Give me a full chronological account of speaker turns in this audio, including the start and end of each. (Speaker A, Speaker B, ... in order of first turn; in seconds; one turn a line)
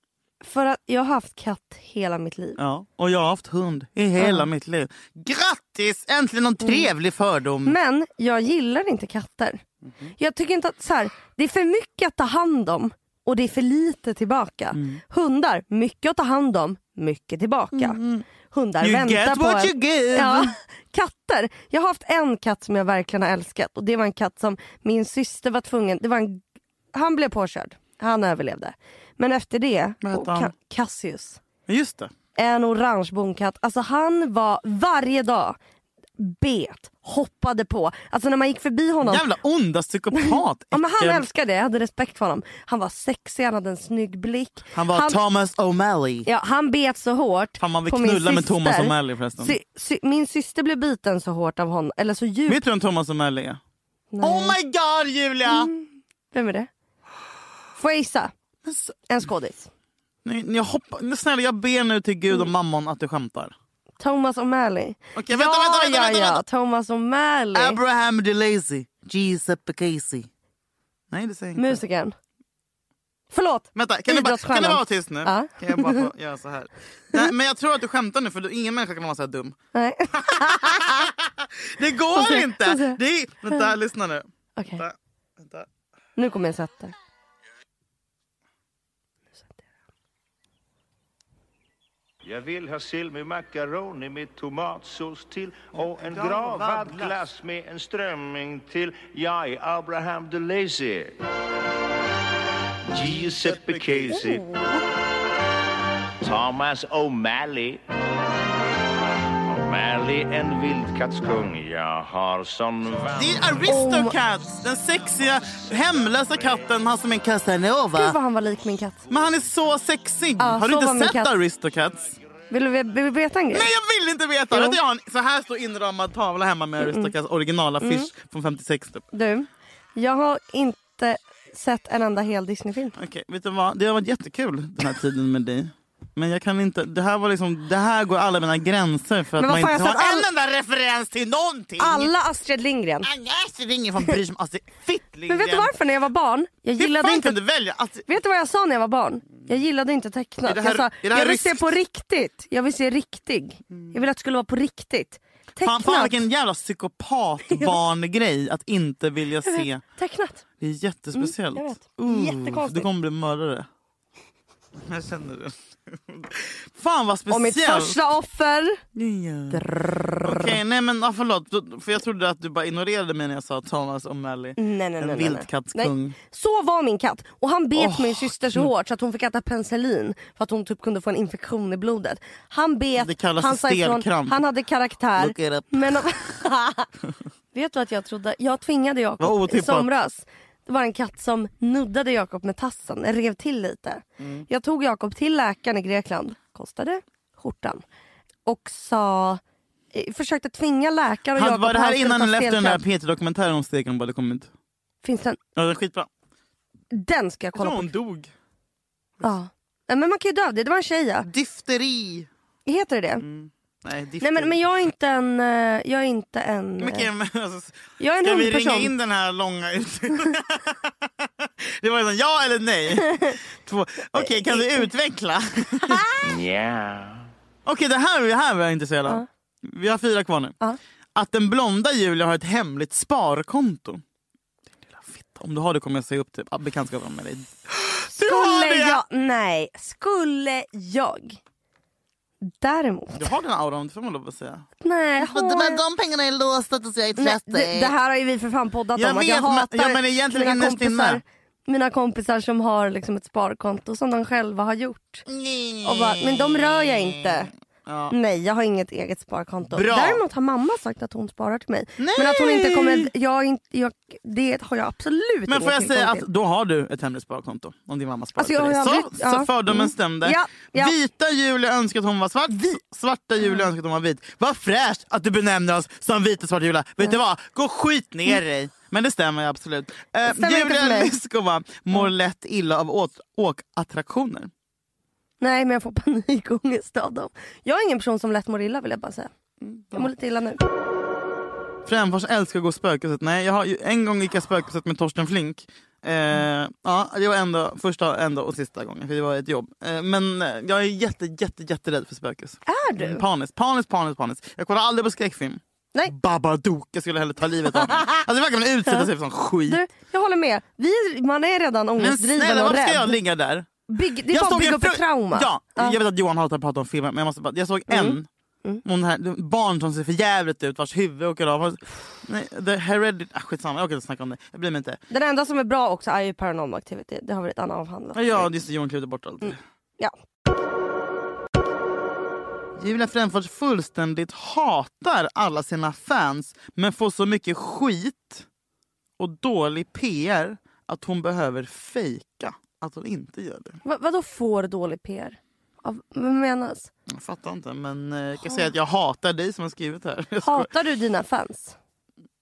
Speaker A: 0.4-2.6
Speaker B: 2.6-7.8
Speaker A: 4.2-4.5
Speaker A: 6.6-6.9
Speaker A: 7.6-9.6
Speaker A: 10.2-31.4
Speaker B: 14.7-15.0
Speaker B: 17.7-18.2
Speaker B: 18.8-20.5
Speaker B: 30.0-30.5
Speaker B: 31.7-32.1
Speaker A: 32.4-35.6
Speaker A: 36.2-39.2
Speaker B: 39.0-41.2
Speaker A: 40.2-45.2
Speaker B: 44.7-46.3
Speaker A: 46.2-52.6
Speaker B: 47.6-49.5
Speaker B: 52.5-53.6
Speaker A: 54.1-54.5
Speaker B: 54.2-55.7
Speaker A: 55.5-56.7
Speaker A: 57.8-58.3
Speaker B: 58.6-59.0
Speaker A: 59.1-59.7
Speaker B: 60.2-63.5
Speaker A: 64.0-67.8
Speaker B: 65.1-66.4
Speaker B: 67.5-70.3
Speaker B: 71.1-71.8
Speaker A: 71.6-72.1
Speaker A: 73.3-76.0
Speaker B: 73.7-79.5
Speaker A: 79.7-81.1
Speaker B: 80.2-84.2
Speaker A: 82.1-83.0
Speaker A: 84.6-84.8
Speaker B: 84.8-85.7
Speaker A: 86.2-86.9
Speaker C: 92.2-101.2
Speaker B: 95.8-97.2
Speaker C: 102.9-104.4
Speaker B: 103.0-104.3
Speaker A: 104.3-104.8
Speaker C: 106.2-107.8
Speaker C: 109.4-113.6
Speaker B: 113.2-118.2
Speaker A: 113.7-114.2
Speaker A: 117.9-119.0
Speaker B: 119.1-122.2
Speaker A: 120.4-121.3
Speaker A: 122.5-123.7
Speaker B: 123.5-129.0
Speaker A: 124.5-124.8
Speaker A: 126.8-127.1
Speaker A: 127.8-128.1
Speaker A: 129.1-132.9
Speaker B: 133.0-142.1
Speaker A: 139.4-140.3
Speaker A: 141.8-143.1
Speaker B: 143.0-145.7
Speaker A: 145.3-147.3
Speaker B: 146.8-148.1
Speaker A: 148.1-156.2
Speaker B: 150.4-151.7
Speaker B: 155.6-159.8
Speaker A: 159.4-160.4
Speaker B: 160.6-163.7
Speaker A: 161.2-162.9
Speaker B: 164.9-168.0
Speaker A: 167.3-168.8
Speaker B: 168.9-169.6
Speaker A: 169.5-170.6
Speaker B: 170.2-176.2
Speaker A: 174.6-186.9
Speaker B: 177.7-178.7
Speaker B: 183.0-184.4
Speaker B: 185.2-186.1
Speaker A: 187.5-197.8
Speaker B: 189.2-189.9
Speaker B: 194.2-194.4
Speaker A: 198.4-199.4
Speaker A: 199.9-202.8
Speaker B: 201.3-204.5
Speaker A: 205.0-205.4
Speaker B: 205.6-206.1
Speaker A: 206.9-207.9
Speaker B: 207.6-208.3
Speaker A: 209.2-211.3
Speaker B: 211.2-212.3
Speaker A: 212.7-213.2
Speaker B: 213.2-214.6
Speaker A: 214.2-217.1
Speaker B: 216.8-226.1
Speaker A: 218.0-218.9
Speaker A: 223.1-223.3
Speaker A: 224.1-224.8
Speaker A: 225.8-226.1
Speaker C: 226.2-227.3
Speaker B: 227.7-230.6
Speaker B: 231.1-234.0
Speaker B: 234.9-239.0
Speaker A: 238.1-241.4
Speaker A: 242.4-243.3
Speaker B: 243.2-244.7
Speaker A: 244.8-245.8
Speaker B: 245.2-247.9
Speaker A: 247.2-255.3
Speaker B: 248.9-251.2
Speaker B: 255.3-257.3
Speaker A: 255.8-257.5
Speaker B: 257.9-258.1
Speaker A: 258.1-266.2
Speaker B: 259.7-260.2
Speaker B: 262.0-263.1
Speaker B: 265.5-284.5
Speaker A: 268.4-270.9
Speaker A: 272.5-272.8
Speaker A: 280.2-281.1
Speaker A: 285.4-289.3
Speaker B: 289.6-290.1
Speaker A: 289.9-290.6
Speaker B: 291.9-309.8
Speaker A: 302.7-303.2
Speaker A: 307.8-308.1
Speaker A: 309.7-313.2
Speaker B: 312.0-313.7
Speaker A: 313.9-316.0
Speaker B: 314.3-318.2
Speaker A: 317.9-318.8
Speaker B: 318.8-325.0
Speaker A: 325.1-328.5
Speaker B: 328.1-329.6
Speaker A: 329.4-330.1
Speaker B: 332.8-338.4
Speaker B: 339.2-343.8
Speaker A: 343.8-346.9
Speaker B: 347.1-350.7
Speaker A: 348.4-348.7
Speaker A: 350.4-351.8